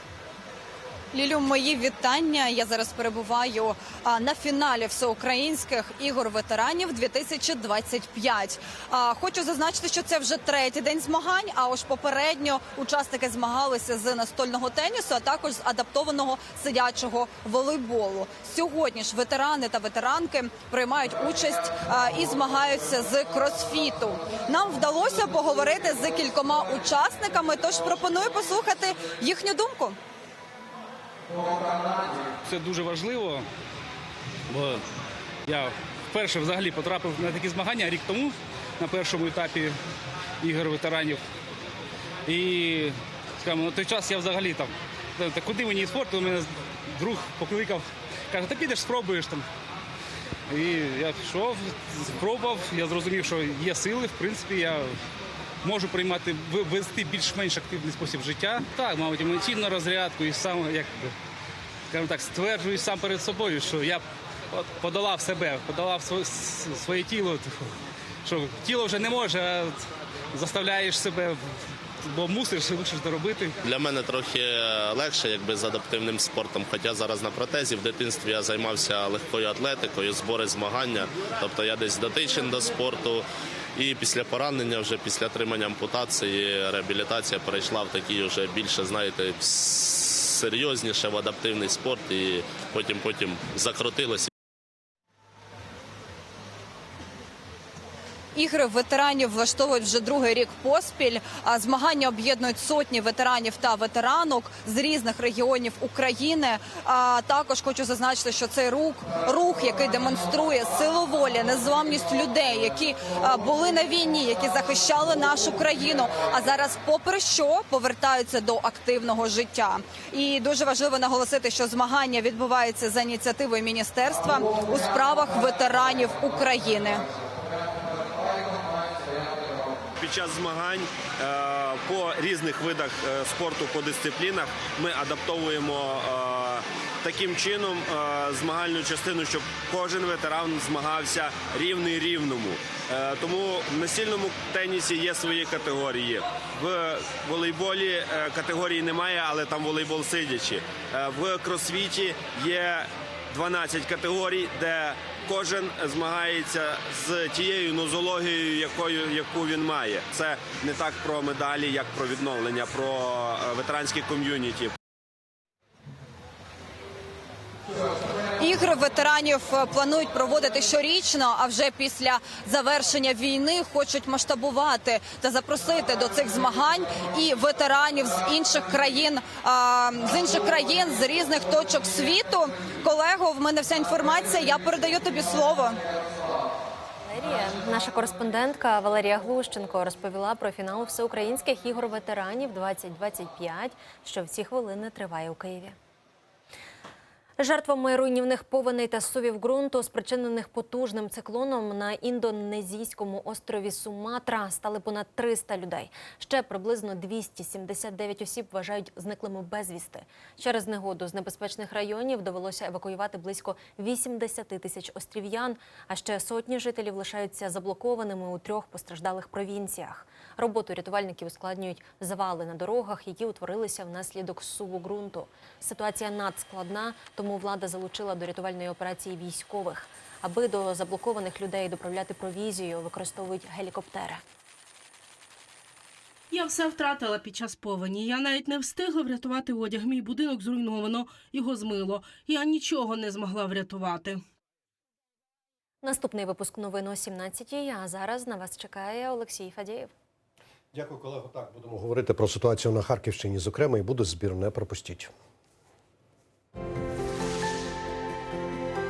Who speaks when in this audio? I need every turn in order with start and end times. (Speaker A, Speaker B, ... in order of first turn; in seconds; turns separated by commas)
Speaker A: 1.1-30.0, Speaker B: 32.4-33.5, Speaker B: 34.5-34.8, Speaker B: 35.5-39.8, Speaker B: 40.4-41.2, Speaker B: 42.2-49.5, Speaker B: 50.5-54.9, Speaker B: 55.6-61.1, Speaker B: 61.9-69.8, Speaker B: 70.3-71.4, Speaker B: 72.0-73.6, Speaker C: 73.6-94.3, Speaker A: 98.3-127.0, Speaker D: 130.0-164.7, Speaker A: 168.4-185.8, Speaker E: 187.1-195.8, Speaker E: 197.4-234.2, Speaker F: 236.3-244.2, Speaker E: 245.8-249.9, Speaker G: 250.7-255.1